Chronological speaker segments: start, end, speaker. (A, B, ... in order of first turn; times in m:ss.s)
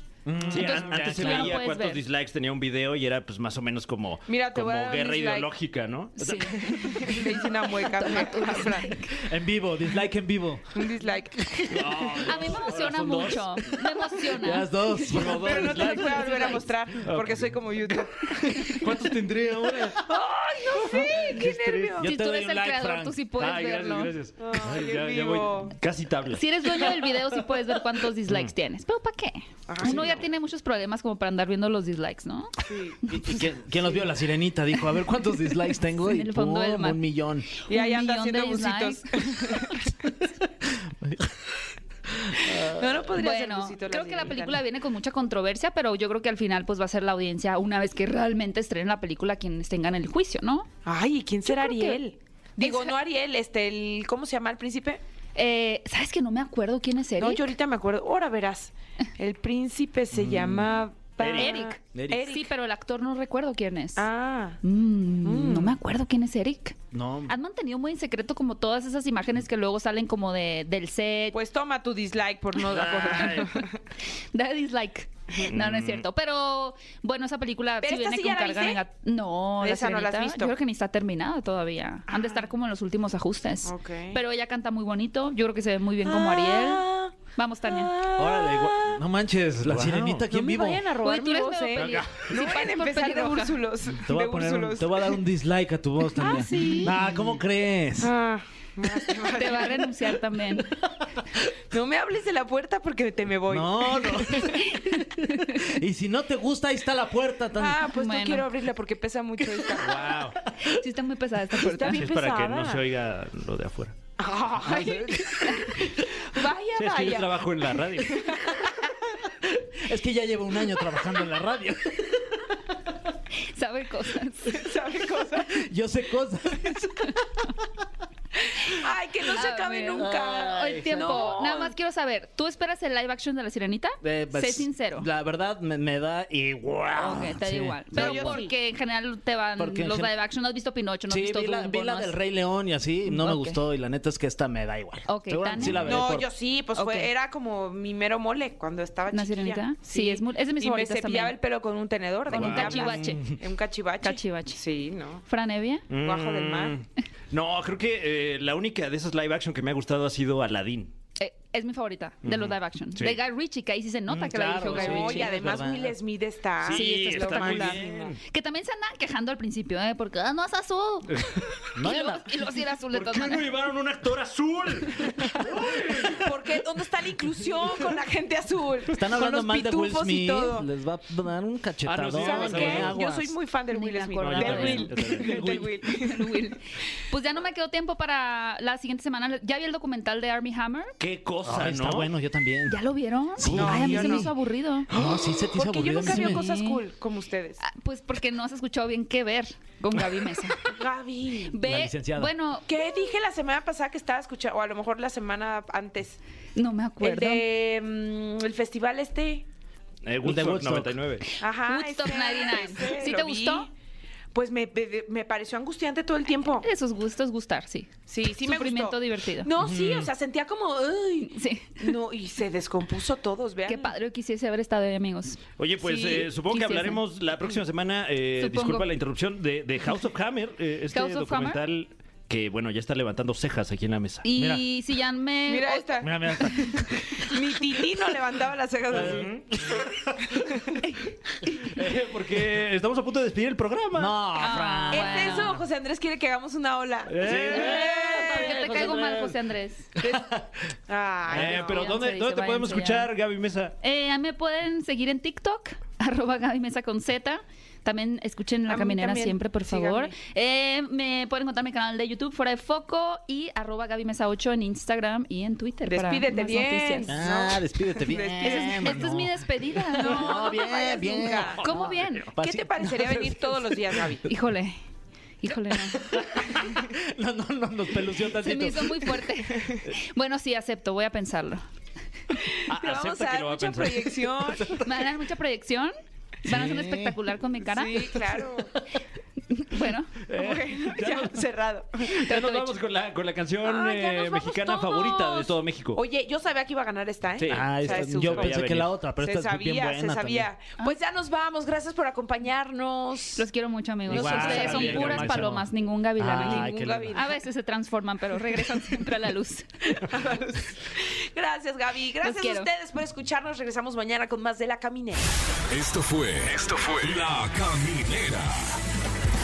0:00.3-0:01.6 A
0:00.5-0:02.0 B
0:00.5-0:07.2 C
0:04.3-0:05.5 D
0:06.2-0:07.0 B
0:06.6-0:09.2 D
0:07.9-0:09.0 B
0:09.2-0:10.6 A
0:10.7-0:12.0 D
0:11.7-0:13.8 C
0:12.2-0:14.9 B
0:14.4-0:16.4 A
0:15.1-0:20.0 C
0:15.2-0:18.9 D
0:16.2-0:16.6 B
0:20.0-0:22.1 D
0:20.7-0:22.1 C
0:21.0-0:21.5 B
0:22.0-0:23.2 A
0:22.0-0:24.1 B
0:23.4-0:27.2 C
0:24.4-0:25.7 D
0:26.4-0:33.4 B
0:28.3-0:28.5 C
0:29.7-0:30.3 D
0:32.7-0:33.0 D
0:33.1-0:37.5 A
0:35.9-0:37.0 B
0:37.7-0:39.6 B
0:37.7-0:39.8 D
0:41.0-0:41.3 A
0:42.3-0:42.8 A
0:42.5-0:44.6 D
0:43.1-0:50.7 B
0:50.8-0:55.0 D
0:51.4-0:52.0 B
0:52.6-0:53.0 B
0:55.4-0:57.5 B
0:57.2-1:02.5 D
1:00.2-1:00.7 C
1:01.2-1:01.6 C
1:01.3-1:04.1 B
1:01.9-1:02.2 A
1:04.0-1:04.6 D
1:04.6-1:11.4 B
1:05.2-1:05.8 D
1:06.9-1:07.4 A
1:11.3-1:13.8 D
1:12.7-1:13.5 C
1:14.3-1:28.0 B
1:15.4-1:16.1 C
1:17.8-1:18.8 D
1:19.6-1:20.6 D
1:22.1-1:22.5 D
1:23.6-1:24.2 D
1:26.0-1:29.0 D
1:28.2-1:30.8 A
1:29.7-1:30.3 C
1:30.3-1:35.2 D
1:31.0-1:33.7 B
1:31.8-1:32.2 C
1:33.9-1:38.1 A
1:36.1-1:36.9 D
1:38.0-1:39.9 D
1:39.3-1:40.7 B
1:41.7-1:44.6 D
1:43.5-1:47.9 A
1:44.6-1:45.6 B
1:47.6-1:50.1 D
1:47.9-1:48.5 B
1:49.8-1:50.4 C
1:50.6-1:52.0 B
1:51.6-1:52.8 D
1:51.8-1:54.0 C
1:54.2-1:58.7 D
1:54.6-1:55.5 A
1:56.8-1:58.4 C
1:59.6-2:02.4 A
2:03.5-2:04.6 B
2:04.5-2:05.5 D
2:05.5-2:07.1 A
2:08.6-2:11.7 D
2:09.3-2:15.1 B
2:10.0-2:11.4 A
2:14.0-2:18.4 A
2:17.0-2:22.2 B
2:17.9-2:18.5 D
2:19.6-2:20.1 A
2:21.1-2:26.3 A
2:23.0-2:23.6 B
2:25.1-2:26.1 B
2:25.7-2:35.2 D
2:26.8-2:27.1 B
2:29.1-2:31.4 B
2:32.3-2:33.3 B
2:32.3-2:33.4 C
2:34.0-2:34.6 B
2:35.3-2:35.9 B
2:35.9-2:40.9 C
2:36.0-2:36.8 D
2:41.2-2:45.5 B
2:42.2-2:43.2 C
2:44.1-2:46.0 A
2:44.7-2:48.1 D
2:46.6-2:48.2 C
2:46.7-2:51.2 B
2:51.1-2:51.7 C
2:51.8-2:52.3 A
2:51.8-2:53.5 B
2:52.9-2:56.5 C
2:56.2-3:00.7 D
2:58.9-3:03.4 A
3:01.8-3:03.0 C
3:02.2-3:06.5 D
3:03.7-3:05.4 B
3:04.2-3:05.3 C
3:04.9-3:05.7 A
3:05.9-3:06.6 B
3:07.1-3:11.0 B
3:11.0-3:12.1 C
3:11.4-3:12.8 A
3:12.7-3:14.9 B
3:13.4-3:14.3 A
3:13.5-3:14.4 D
3:14.9-3:16.5 A
3:14.9-3:17.6 D
3:16.0-3:16.8 B
3:17.6-3:20.8 B
3:20.7-3:21.6 D
3:21.5-3:23.1 B
3:21.6-3:22.3 A
3:22.7-3:26.2 D
3:26.6-3:27.5 B
3:27.0-3:29.5 D
3:30.0-3:31.2 C
3:30.2-3:31.0 A
3:31.4-3:33.7 D
3:31.5-3:33.7 B
3:34.3-3:36.7 D
3:36.6-3:39.5 B
3:38.1-3:43.9 D
3:39.6-3:40.1 C
3:41.2-3:41.9 B
3:43.7-3:45.4 B
3:45.6-3:54.3 C
3:45.8-3:46.3 D
3:46.4-3:47.0 B
3:48.4-3:48.9 B
3:50.9-3:51.6 B
3:54.2-3:56.0 B
3:54.4-3:54.6 A
3:55.5-3:59.3 D
3:56.0-3:57.3 A
3:58.9-3:59.3 A
3:58.9-4:00.2 C
4:00.3-4:00.8 D
4:01.5-4:04.2 C
4:04.0-4:05.6 A
4:04.4-4:05.6 B
4:04.9-4:09.0 D
4:07.1-4:08.9 C
4:07.3-4:09.4 A
4:08.2-4:09.9 B
4:10.9-4:12.0 D
4:11.3-4:13.8 C
4:11.6-4:13.1 B
4:13.8-4:27.1 B
4:18.7-4:20.2 D
4:25.9-4:29.1 D
4:27.1-4:34.0 A
4:28.4-4:30.5 B
4:29.9-4:31.7 D
4:31.6-4:32.3 B
4:32.4-4:34.3 D
4:34.3-4:34.8 B
4:35.4-4:36.1 B
4:36.1-4:39.2 A
4:38.3-4:41.6 B
4:42.4-4:44.8 D
4:42.7-4:44.8 C
4:44.8-4:45.9 B
4:46.5-4:48.1 B
4:46.5-4:47.2 A
4:47.6-4:48.8 D
4:49.5-4:50.2 B
4:50.3-4:51.4 C
4:50.3-4:52.2 D
4:52.0-4:56.0 C
4:52.3-4:52.7 B
4:53.6-4:58.7 D
4:57.4-4:58.9 C
4:57.5-5:00.5 A
4:59.2-5:03.5 D
5:03.4-5:09.7 B
5:04.1-5:07.2 A
5:04.1-5:05.2 D
5:04.1-5:05.5 C
5:06.4-5:07.4 D
5:09.9-5:15.3 D
5:12.2-5:12.7 B
5:15.7-5:18.7 E